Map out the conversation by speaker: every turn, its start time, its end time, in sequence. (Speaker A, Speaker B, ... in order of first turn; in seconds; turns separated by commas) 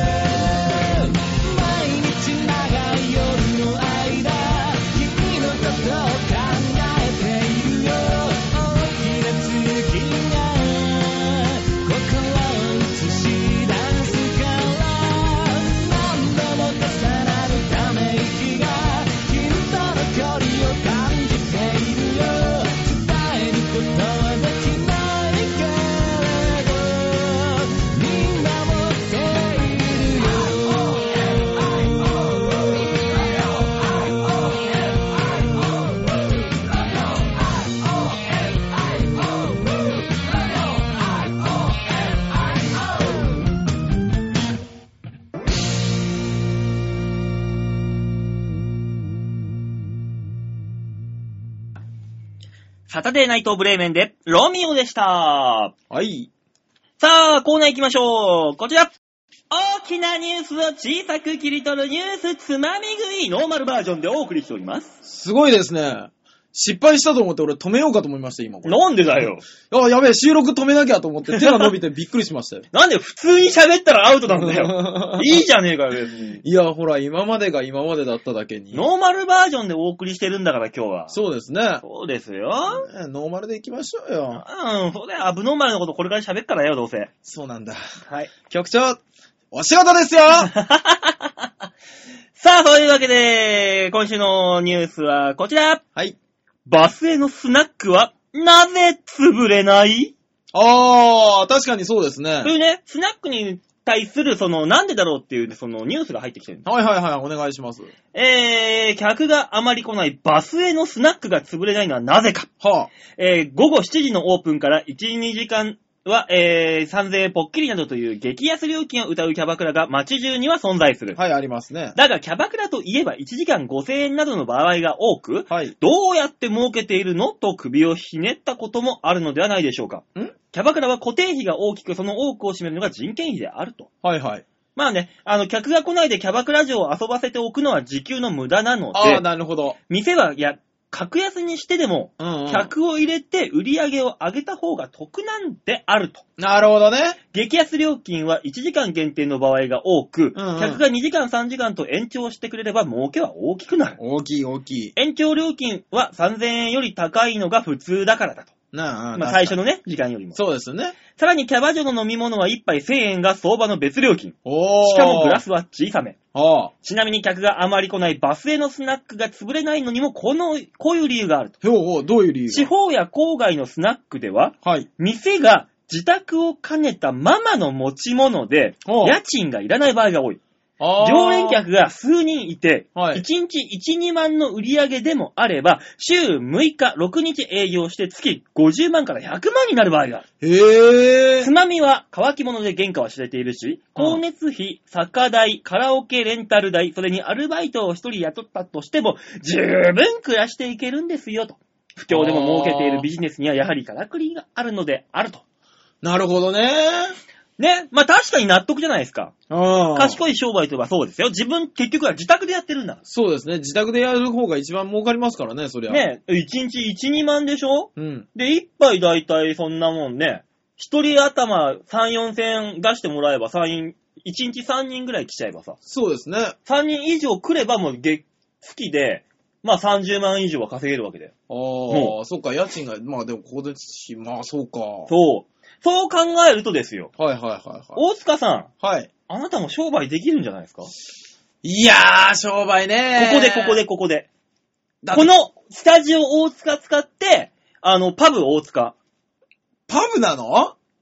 Speaker A: 0.2-30.8, Speaker B: 52.9-55.7, Speaker C: 55.9-56.3, Speaker B: 57.0-58.9, Speaker B: 59.5-64.9, Speaker C: 65.0-72.7, Speaker B: 68.6-69.4, Speaker B: 71.3-71.7, Speaker B: 72.7-76.4, Speaker C: 74.3-75.4, Speaker C: 76.4-78.8, Speaker B: 78.7-81.1, Speaker C: 81.1-81.8, Speaker B: 81.8-82.9, Speaker C: 82.7-84.4, Speaker B: 84.3-87.1, Speaker C: 87.2-87.8, Speaker B: 88.0-88.3, Speaker C: 88.5-89.0, Speaker C: 89.5-90.5, Speaker B: 90.4-91.5, Speaker B: 92.4-95.8, Speaker B: 96.7-100.1, Speaker C: 100.5-102.5, Speaker B: 102.4-106.6, Speaker C: 106.6-107.9, Speaker B: 108.1-112.5, Speaker C: 112.6-112.9, Speaker B: 113.1-121.2, Speaker C: 121.1-122.0, Speaker B: 121.9-133.9, Speaker C: 125.5-125.7, Speaker C: 134.0-134.4, Speaker B: 134.7-139.2, Speaker C: 138.9-139.8, Speaker B: 139.9-146.2, Speaker C: 142.2-142.7, Speaker C: 146.4-147.2, Speaker B: 147.3-154.0, Speaker C: 150.3-150.8, Speaker C: 154.0-154.9, Speaker B: 154.9-158.5, Speaker C: 158.7-159.6, Speaker B: 159.1-160.4, Speaker C: 160.3-161.0, Speaker B: 161.1-166.2, Speaker C: 164.4-165.4, Speaker C: 166.3-166.7, Speaker B: 166.8-171.6, Speaker C: 171.6-172.7, Speaker B: 172.5-180.4, Speaker C: 174.6-174.9, Speaker C: 178.8-179.2, Speaker C: 180.8-181.6, Speaker B: 181.0-190.2, Speaker C: 182.9-183.2, Speaker C: 190.4-191.5, Speaker B: 191.4-205.4, Speaker C: 202.1-203.1, Speaker C: 206.0-207.2, Speaker B: 207.6-209.3, Speaker C: 209.5-210.2, Speaker B: 209.9-213.0, Speaker C: 213.1-216.1, Speaker B: 215.9-225.8, Speaker C: 218.0-218.3, Speaker C: 225.9-226.6, Speaker B: 226.7-231.3, Speaker C: 231.5-235.1, Speaker B: 231.9-232.1, Speaker B: 235.1-237.1, Speaker C: 237.2-238.0, Speaker B: 237.9-238.7, Speaker C: 238.8-239.1, Speaker B: 239.3-240.9, Speaker C: 241.6-243.8, Speaker B: 243.2-244.3, Speaker C: 245.0-245.3, Speaker B: 245.1-248.9, Speaker C: 249.9-250.8